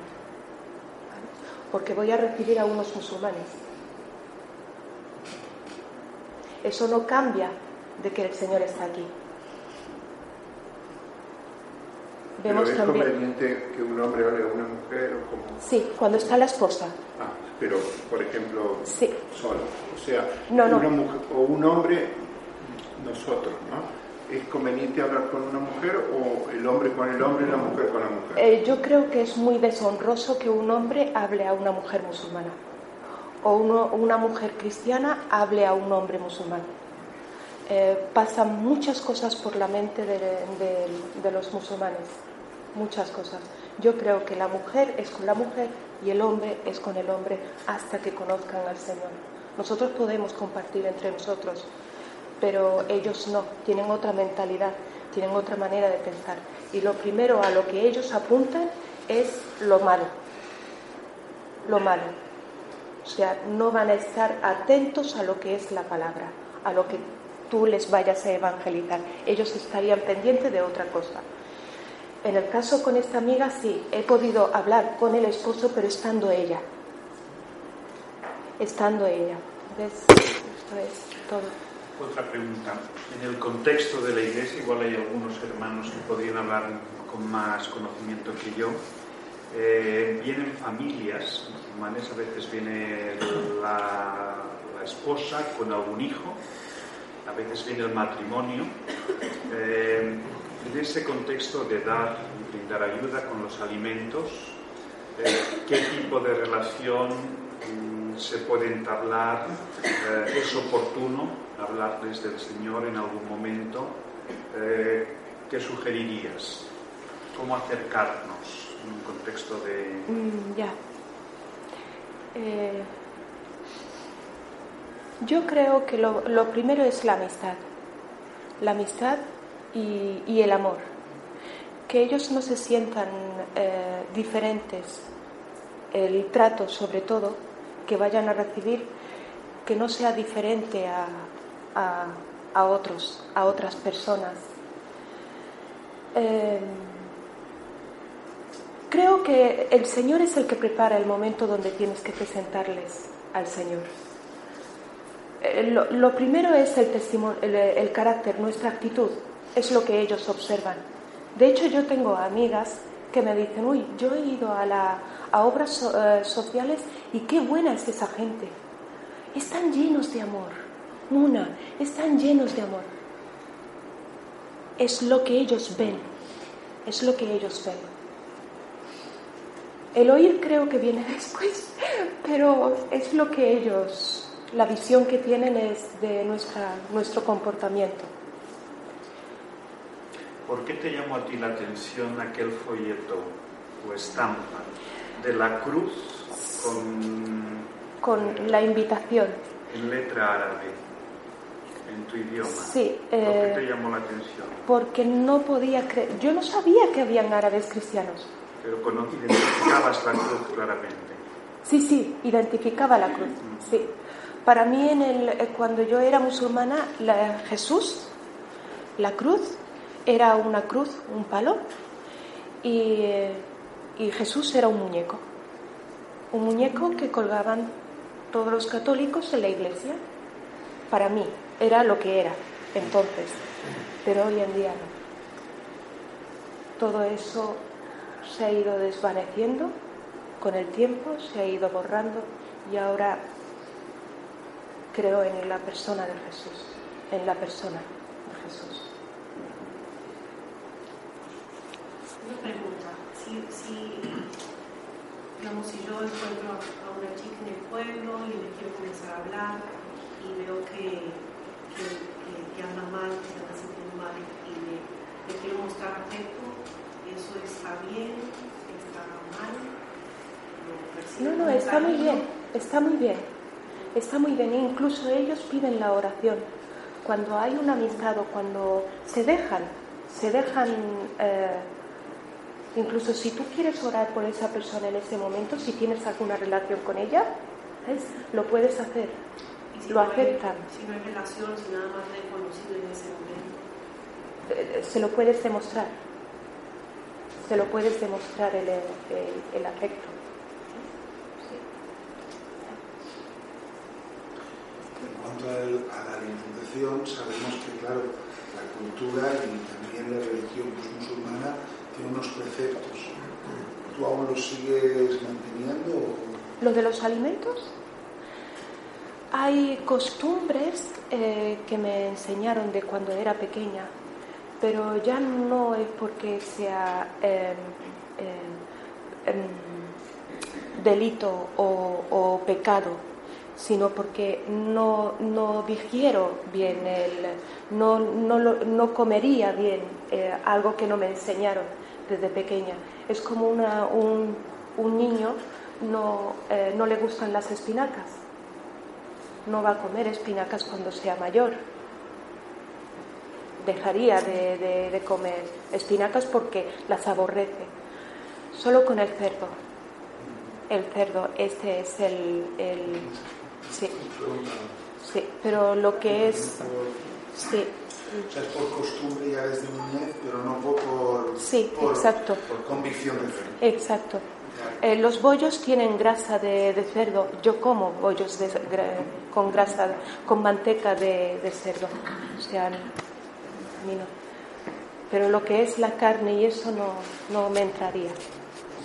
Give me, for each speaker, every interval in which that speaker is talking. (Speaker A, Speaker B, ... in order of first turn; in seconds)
Speaker A: 1.1-3.5, 6.6-9.1, 12.4-13.1, 15.6-16.9, 18.9-19.2, 20.5-20.9, 28.4-32.6, 33.4-36.7, 37.6-42.2, 42.7-51.7, 52.4-60.1, 61.6-62.1, 63.0-71.2, 72.2-76.6, 78.6-81.5, 120.1-120.7, 122.3-122.9, 125.2-127.6, 128.6-129.2, 129.7-130.9, 131.9-135.1, 135.9-138.9, 139.6-144.4, 146.1-147.1, 148.9-153.9, 155.4-160.8, 161.3-168.5, 169.3-172.9, 174.8-176.1, 176.8-177.9, 179.9-188.1, 198.0-199.4, 202.4-203.6, 204.7-208.3, 211.6-213.9, 214.4-218.1, 219.0-221.6, 222.6-223.4, 223.9-225.2, 226.3-227.7, 228.3-230.0, 230.9-233.4, 234.0-234.9, 236.8-237.6, 238.2-239.7, 240.4-243.2, 244.9-248.9, 271.2-273.3, 273.9-276.4, 277.0-281.7, 282.7-289.2, 289.9-290.6, 294.5-295.9, 297.4-300.1, 316.6-317.7, 319.3-323.9, 324.6-328.6, 329.2-329.9, 330.7-333.0, 333.6-348.2, 349.4-351.6, 353.6-357.7, 358.5-359.6, 360.7-363.1, 363.7-364.0, 365.0-366.6, 367.4-368.2, 371.4-372.4, 373.6-374.2, 374.8-382.9, 383.7-384.1, 385.1-388.2
Speaker B: 12.4-15.6, 17.1-28.4
Speaker C: 82.0-88.8, 89.5-96.4, 97.2-98.8, 99.5-104.5, 105.2-114.0, 114.5-116.7, 117.3-120.1, 190.4-197.7, 198.2-198.5, 199.7-200.8, 201.8-204.7, 208.6-211.2
Speaker D: 252.2-254.3, 255.3-269.7, 270.5-272.4, 289.7-293.6
Speaker E: 305.0-316.4, 364.1-364.7, 366.1-367.2, 368.3-373.6